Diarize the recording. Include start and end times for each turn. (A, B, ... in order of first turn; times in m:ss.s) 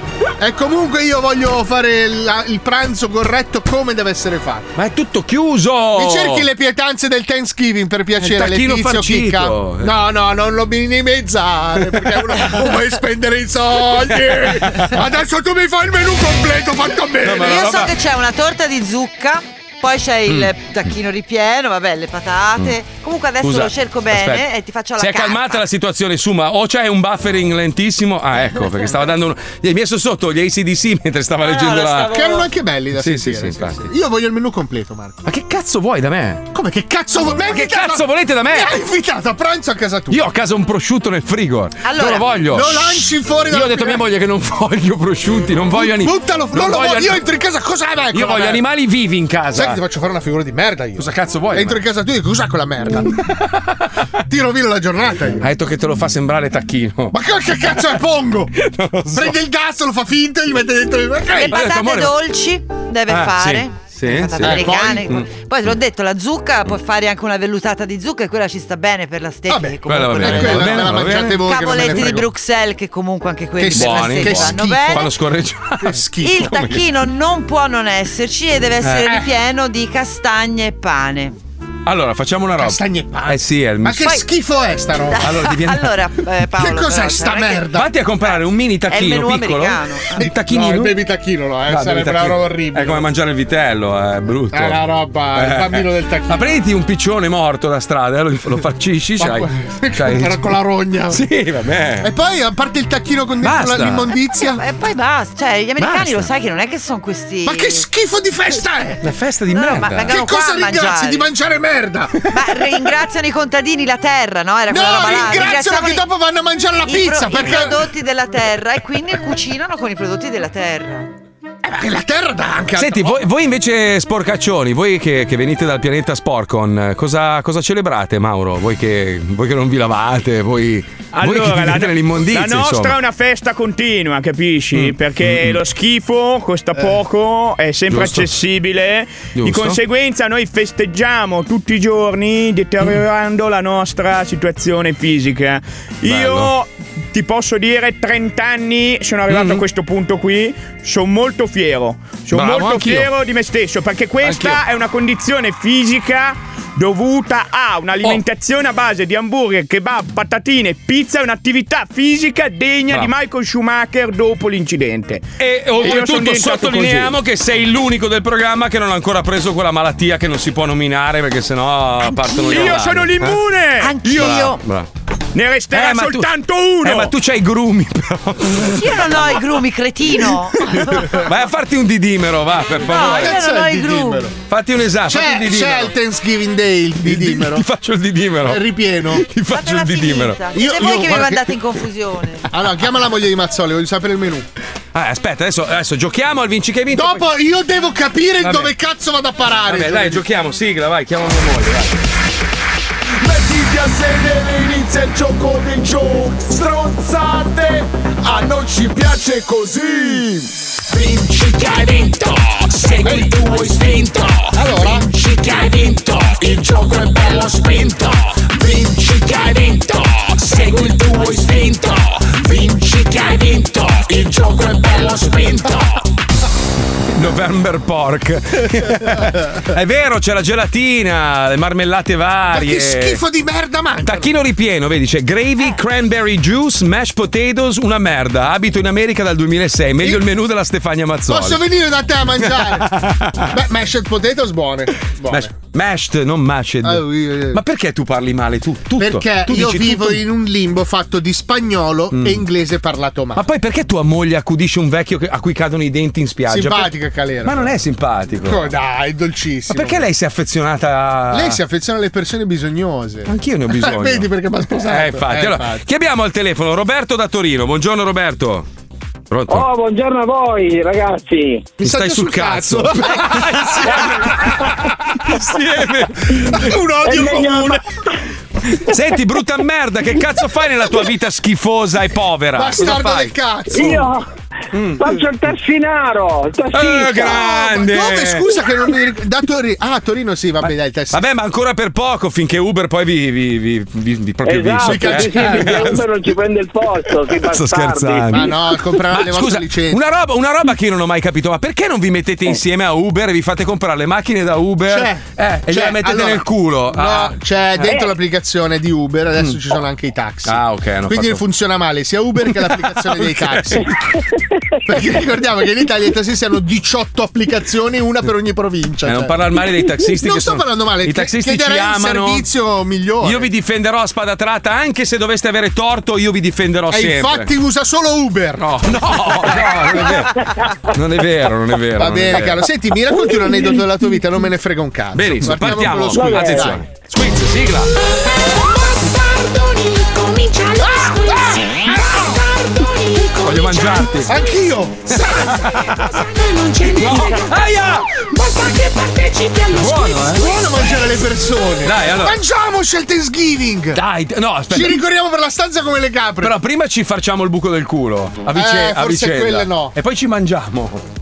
0:00.4-0:04.7 A
0:04.8-0:06.5 B
0:05.9-0:17.7 A
0:08.2-0:09.9 B
0:14.3-0:15.0 B
0:17.2-0:17.9 B
0:17.4-0:25.6 C
0:20.3-0:20.5 B
0:23.4-0:24.4 B
0:25.0-0:32.2 B
0:31.4-0:32.4 C
0:32.0-0:35.2 A
0:33.0-0:33.9 B
0:35.2-0:36.5 B
0:36.5-0:40.2 A
0:37.5-0:38.8 B
0:40.1-0:47.2 B
0:41.8-0:42.2 C
0:42.4-0:44.0 A
0:45.7-0:48.6 A
0:48.1-0:49.8 B
0:49.5-0:53.2 A
0:51.0-0:51.8 B
0:54.2-0:55.5 A
0:55.4-0:57.2 B
0:57.1-0:58.5 A
0:58.6-0:59.4 B
0:59.1-1:01.6 A
1:01.3-1:15.1 C
1:01.5-1:02.1 B
1:03.1-1:05.3 B
1:04.4-1:05.2 A
1:09.5-1:12.3 A
1:09.8-1:12.1 B
1:13.6-1:15.1 A
1:13.7-1:16.8 B
1:15.8-1:16.6 A
1:16.2-1:21.4 C
1:18.8-1:19.2 B
1:21.8-1:24.2 B
1:22.6-1:25.2 A
1:25.1-1:27.7 C
1:25.2-1:25.9 B
1:26.6-1:27.9 A
1:27.7-1:31.0 B
1:28.2-1:30.2 C
1:30.2-1:33.1 A
1:31.7-1:34.8 B
1:34.5-1:36.5 A
1:35.3-1:40.5 B
1:39.2-1:41.2 A
1:41.1-1:42.1 B
1:42.0-1:44.6 A
1:43.4-1:44.1 B
1:44.5-1:47.8 C
1:45.8-1:46.2 A
1:47.4-1:49.0 A
1:49.0-1:50.2 B
1:49.5-1:51.3 C
1:50.0-1:52.4 A
1:52.3-1:56.0 C
1:54.7-1:57.9 A
1:56.8-2:01.1 C
2:01.6-2:03.2 A
2:02.8-2:13.0 B
2:11.1-2:47.2 D
2:14.7-2:15.6 B
2:17.9-2:18.3 B
2:19.4-2:19.8 B
2:26.0-2:26.5 B
2:29.3-2:29.6 B
2:32.3-2:33.1 B
2:34.2-2:34.6 B
2:45.4-2:53.4 B
2:52.3-2:52.6 C
2:52.4-2:54.2 D
2:53.8-2:54.6 C
2:54.0-2:54.9 B
2:55.3-2:57.1 D
2:55.7-2:59.4 B
2:58.6-3:01.0 C
3:00.7-3:03.4 B
3:02.8-3:04.2 C
3:02.9-3:04.3 A
3:04.5-3:06.0 B
3:05.1-3:07.6 A
3:07.0-3:10.4 B
3:08.4-3:09.3 A
3:09.4-3:12.5 C
3:10.5-3:11.5 A
3:12.5-3:14.5 A
3:14.9-3:17.2 B
3:16.9-3:20.2 A
3:18.4-3:18.7 B
3:19.7-3:22.0 B
3:23.2-3:46.0 E
3:33.0-3:33.3 A
3:34.5-3:35.1 A
3:47.1-3:53.2 B
3:52.5-3:54.3 A
3:54.0-4:01.6 B
4:01.3-4:02.9 A
4:02.4-4:03.5 B
4:03.5-4:05.5 A
4:05.3-4:10.2 B
4:06.8-4:07.6 A
4:09.0-4:13.4 A
4:12.1-4:12.4 B
4:13.4-4:16.9 B
4:16.5-4:17.7 A
4:17.4-4:18.7 B
4:18.4-4:20.0 A
4:19.7-4:21.6 B
4:21.3-4:25.8 A
4:23.3-4:28.7 B
4:29.3-4:29.7 B
4:29.5-4:31.7 F
4:31.8-4:34.5 B
4:31.8-4:34.9 A
4:35.2-4:36.7 B
4:36.5-4:37.8 A
4:37.0-4:37.8 F
4:38.8-4:43.9 B
4:42.6-4:44.1 A
4:43.7-4:44.2 F
4:44.7-4:45.0 B
4:44.9-4:47.4 F
4:46.7-4:48.5 B
4:47.3-4:51.2 A
4:50.6-4:56.3 B
4:54.4-4:58.3 F
4:54.8-4:55.9 A
4:57.1-5:07.4 B
4:58.3-5:00.0 A
5:04.9-5:13.9 A
5:10.4-5:11.4 B
5:13.1-5:13.8 B
5:14.8-5:19.3 A
5:19.0-5:22.4 B
5:20.2-5:23.5 A
5:23.2-5:27.5 B
5:26.9-5:30.2 A
5:28.6-5:30.3 B
5:30.9-5:32.6 B
5:32.0-5:36.8 A
5:35.1-5:37.9 B
5:36.1-5:36.6 F
5:38.8-5:44.1 E
5:43.4-5:44.3 B
5:44.3-5:45.3 A
5:45.1-5:46.2 B
5:46.5-5:47.6 E
5:47.0-5:48.1 B
5:48.2-5:50.4 E
5:49.7-5:50.5 B
5:50.4-5:54.0 A
5:51.8-5:52.4 B
5:53.9-5:55.0 B
5:54.7-5:56.5 A
5:56.4-6:01.0 B
5:58.5-5:59.9 A